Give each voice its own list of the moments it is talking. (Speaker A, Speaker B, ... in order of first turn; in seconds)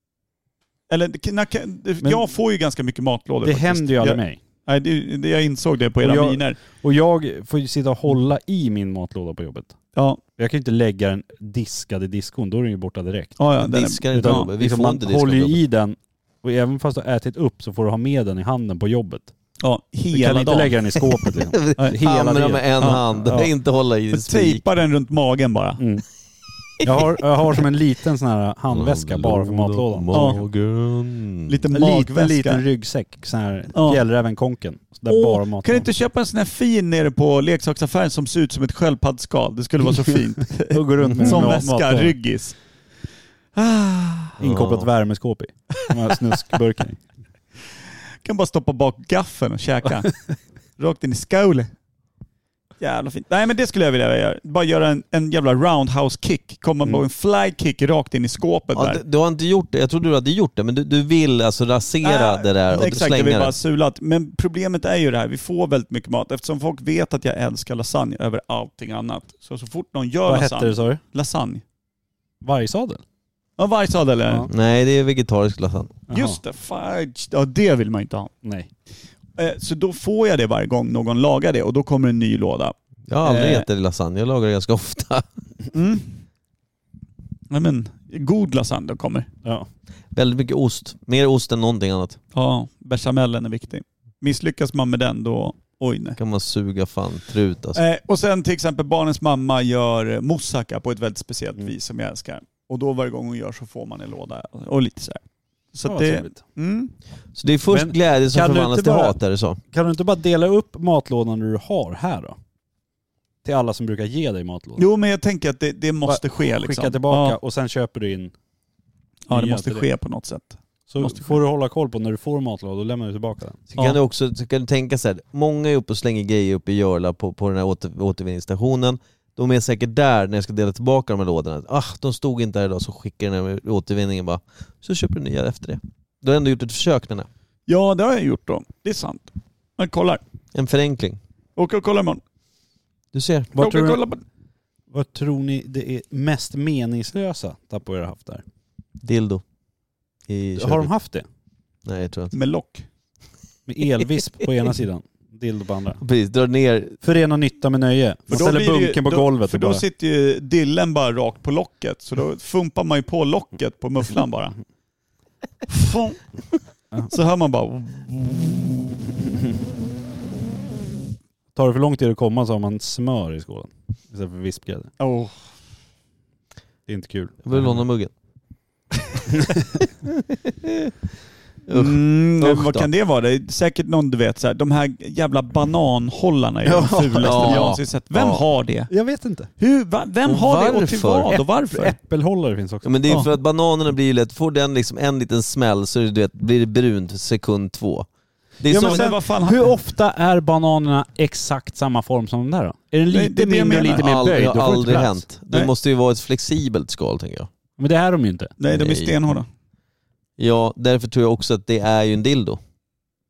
Speaker A: 0.9-6.6, 9.9-10.2, 13.4-14.5, 19.6-20.7, 24.1-25.8, 30.1-30.4, 31.5-32.6, 33.7-34.0, 35.1-42.6, 43.5-44.4, 48.2-51.7, 52.8-59.0, 62.0-71.6, 73.6-74.5, 76.1-78.3, 79.4-83.7, 85.7-86.2, 87.5-89.3, 92.3-96.2, 97.7-106.9, 114.8-117.4, 119.3-121.4, 137.7-140.2, 141.6-142.2, 143.6-144.2, 152.3-152.9, 158.3-164.5, 165.7-166.2, 167.1-169.1, 175.0-175.3, 181.7-188.9, 189.6-192.0, 198.7-199.7, 203.1-204.1, 208.6-209.5
Speaker B: 3.4-4.4, 6.0-9.7, 10.4-13.4, 14.1-19.3, 20.1-23.5, 25.8-26.0, 26.8-30.4, 31.7-35.9, 40.7-42.2, 44.4-47.0, 70.2-71.0, 72.4-73.0, 76.1-76.4, 78.4-78.7, 105.8-106.4, 107.7-109.2, 109.7-112.4, 113.4-114.8, 116.0-118.3, 119.3-119.9, 120.9-123.9, 143.5-144.0, 144.9-148.4, 150.6-151.2, 153.7-156.0, 157.0-159.8, 171.5-174.9, 176.9-177.7, 186.6-187.8, 188.9-189.5, 191.3-193.2, 198.7-205.2, 207.8-208.5
Speaker C: 13.6-15.6, 21.2-24.6, 28.7-31.6, 41.1-41.5, 44.4-44.9, 58.7-63.6, 74.5-76.0, 83.1-85.2, 90.1-92.2, 96.2-97.8, 107.3-109.6, 123.7-137.3, 140.5-141.2, 143.1-143.5, 149.0-149.4, 150.3-150.9, 151.8-152.3, 156.0-157.0, 177.4-178.1, 180.1-180.9, 181.7-182.9, 187.2-188.4, 190.2-191.3, 192.8-198.1, 198.6-199.1, 203.7-207.5, 208.7-209.2, 210.4-212.6